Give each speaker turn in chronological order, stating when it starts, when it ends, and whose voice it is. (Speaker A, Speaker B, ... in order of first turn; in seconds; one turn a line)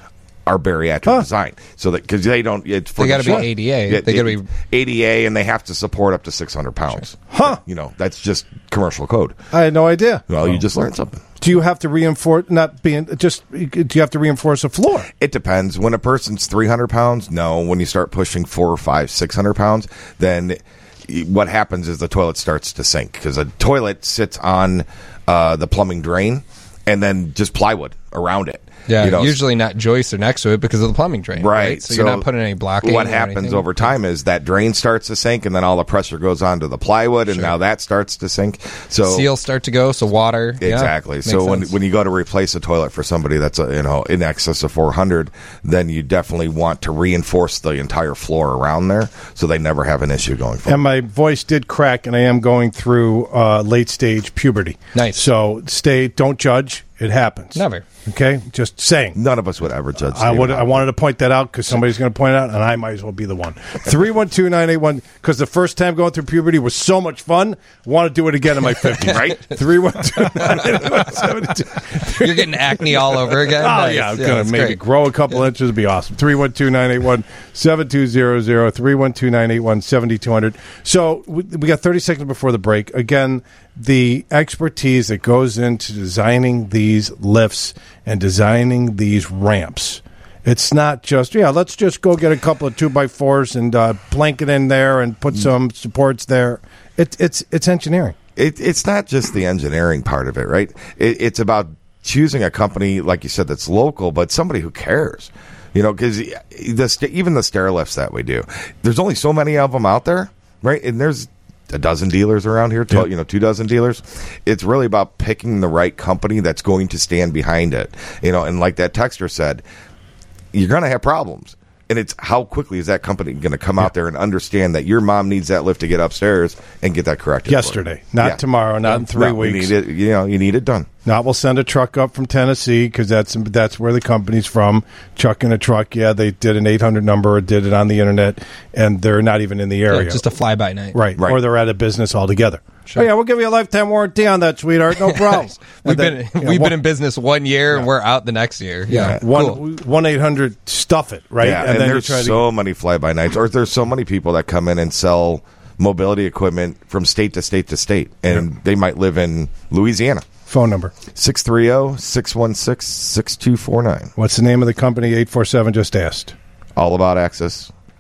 Speaker A: 0.5-9.4
Speaker B: 3.0-4.5
Speaker C: 7.3-7.6
Speaker C: 9.5-10.3
Speaker A: 10.3-11.2
Speaker C: 11.4-15.1
Speaker A: 15.2-29.4
Speaker B: 28.9-33.9
Speaker A: 31.4-32.3
Speaker A: 32.8-39.3
Speaker B: 37.3-37.5
Speaker B: 39.0-41.7
Speaker A: 40.6-50.8
Speaker C: 50.7-59.2
Speaker B: 55.0-55.2
Speaker B: 57.6-57.8
Speaker A: 59.1-60.9
Speaker C: 60.1-98.2
Speaker A: 69.1-69.4
Speaker B: 72.2-74.8
Speaker A: 98.4-119.6
Speaker A: 120.5-130.9
Speaker C: 127.5-129.7
Speaker C: 131.1-140.2
Speaker B: 139.9-141.0
Speaker C: 140.9-146.8
Speaker B: 145.1-149.6
Speaker C: 148.9-152.4
Speaker A: 151.4-160.3
Speaker C: 160.5-160.9
Speaker A: 161.1-164.1
Speaker C: 164.2-166.4
Speaker A: 166.8-167.7